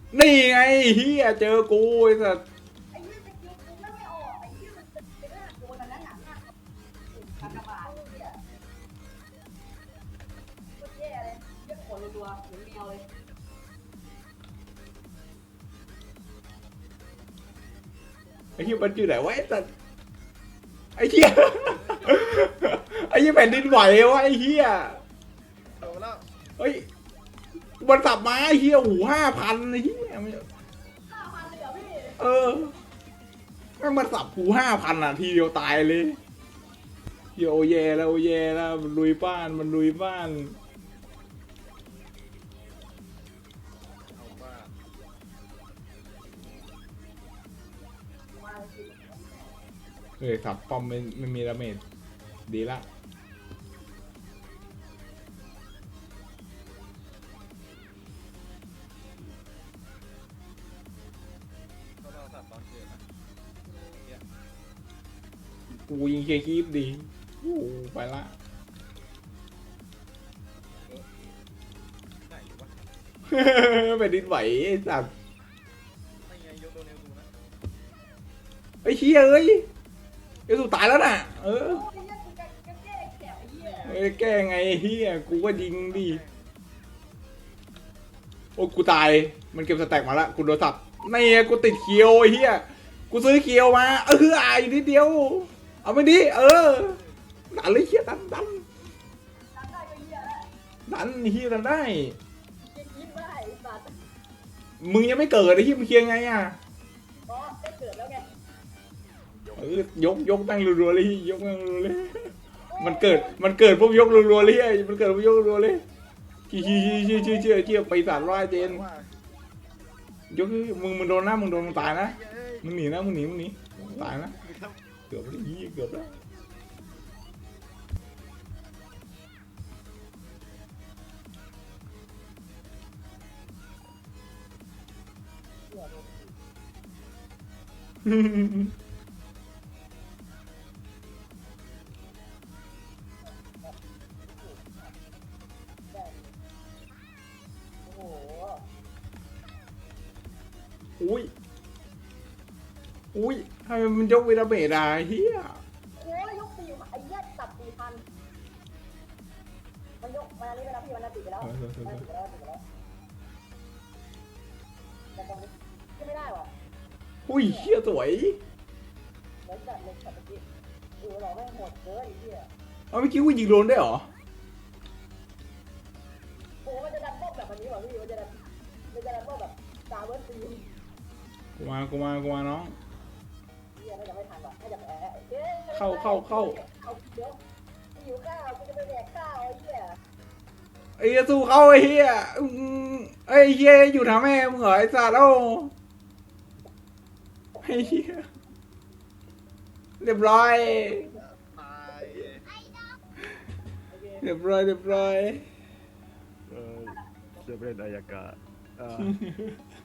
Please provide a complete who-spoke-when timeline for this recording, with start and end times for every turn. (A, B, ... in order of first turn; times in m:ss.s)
0:00.1-0:02.4 A
0:02.9-0:06.5 B
0:07.1-0:08.4 B
0:10.8-0:13.1 B
0:18.6-0:19.7 A
0:21.0-0:25.0 A
0:25.7-0:26.3 C
0:26.6-0:26.8 A
0:27.8-0:30.4 A
0:31.0-0:32.2 B
0:32.2-0:32.7 A
0:33.8-0:36.2 A
0:37.4-0:40.6 A
0:44.1-0:44.8 C
0:48.3-0:49.6 B
0:50.2-0:51.8 A
0:52.5-0:52.8 A
1:02.0-1:03.0 C
1:05.9-1:08.3 A
1:10.8-1:11.3 C
1:12.2-1:12.8 C
1:13.3-1:15.1 A
1:16.2-1:17.3 C
1:18.8-1:19.6 A
1:20.5-1:21.9 A
1:21.6-1:24.0 B
1:23.6-1:26.5 C
1:23.8-1:26.2 A
1:28.6-1:37.0 A
1:36.6-1:37.3 C
1:37.5-1:38.6 A
1:39.5-1:40.5 B
1:40.9-1:42.2 A
1:42.6-1:44.0 B
1:44.8-1:46.6 A
1:47.2-1:48.3 B
1:49.3-1:49.6 D
1:49.5-1:55.8 A
1:52.7-1:53.6 B
1:56.5-1:58.8 A
1:56.5-1:58.1 B
1:58.1-1:59.2 C
2:00.3-2:04.4 A
2:01.5-2:02.7 C
2:04.0-2:04.8 C
2:05.1-2:06.2 A
2:15.7-2:16.4 B
2:18.2-2:18.5 A
2:23.2-2:24.9 B
2:25.9-2:26.3 B
2:27.8-2:28.6 B
2:31.0-2:31.3 A
2:33.1-2:35.6 A
2:35.9-2:38.0 B
2:40.0-2:42.6 B
2:41.4-2:42.0 A
2:45.1-2:46.5 B
2:47.2-2:48.4 A
2:47.4-2:47.7 B
2:49.4-2:50.4 B
2:51.0-2:52.5 B
2:52.9-2:54.1 A
2:56.6-3:00.8 B
3:01.6-3:02.8 A
3:03.7-3:07.4 B
3:05.7-3:06.6 A
3:07.9-3:10.0 B
3:11.0-3:15.7 A
3:17.6-3:18.3 A
3:20.0-3:21.1 A
3:21.4-3:22.5 C
3:23.9-3:24.2 B
3:24.2-3:25.4 A
3:26.5-3:29.2 D
3:26.9-3:27.2 B
3:29.1-3:29.6 A